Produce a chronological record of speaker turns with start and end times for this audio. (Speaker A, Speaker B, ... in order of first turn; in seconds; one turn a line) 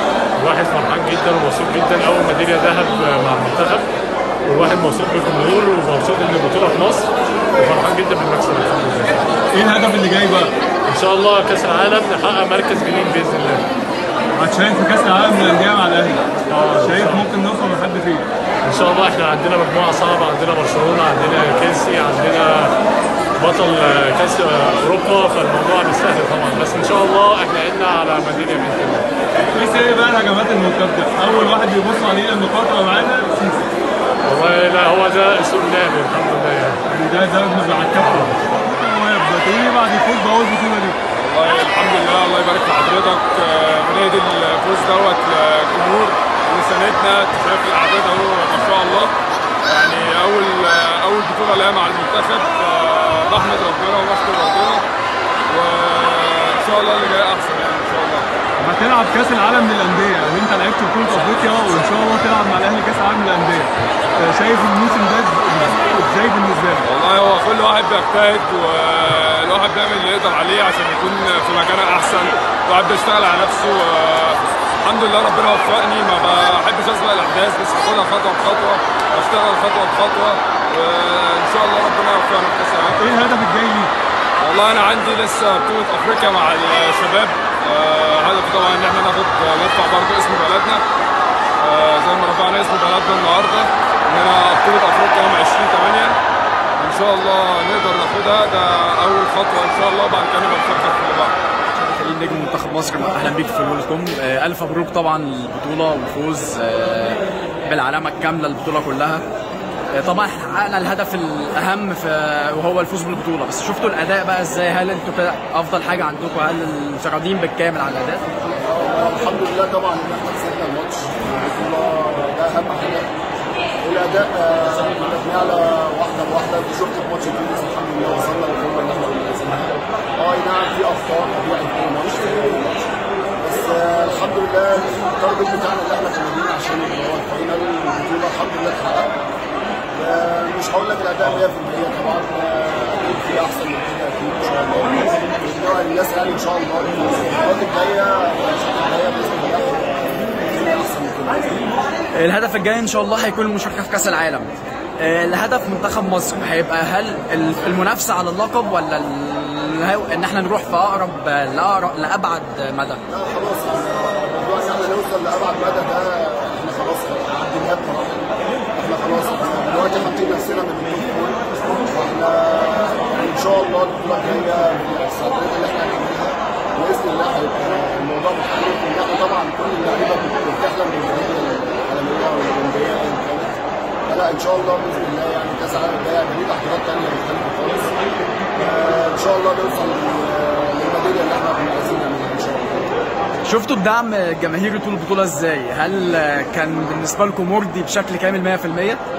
Speaker A: 0.4-3.9
Speaker A: 4.5-9.2
Speaker B: 9.5-10.5
Speaker A: 10.9-13.6
Speaker B: 14.4-18.2
Speaker A: 16.5-17.2
Speaker A: 18.6-22.7
Speaker A: 23.4-29.1
Speaker B: 29.5-33.6
Speaker A: 34.2-36.8
Speaker B: 36.9-41.0
Speaker A: 38.0-38.3
Speaker C: 41.1-49.1
Speaker C: 49.7-54.9
Speaker C: 55.5-58.3
Speaker B: 58.6-66.9
Speaker C: 66.8-83.0
Speaker B: 83.0-83.9
Speaker C: 84.4-90.8
Speaker C: 91.6-96.2
Speaker C: 96.8-101.3
Speaker D: 101.7-109.2
Speaker D: 109.9-118.2
Speaker E: 118.6-123.1
Speaker E: 123.8-132.8
Speaker E: 133.4-139.1
Speaker E: 139.9-151.7
Speaker D: 152.1-163.0
Speaker E: 163.1-187.9
Speaker E: 188.6-192.9
Speaker D: 193.4-199.0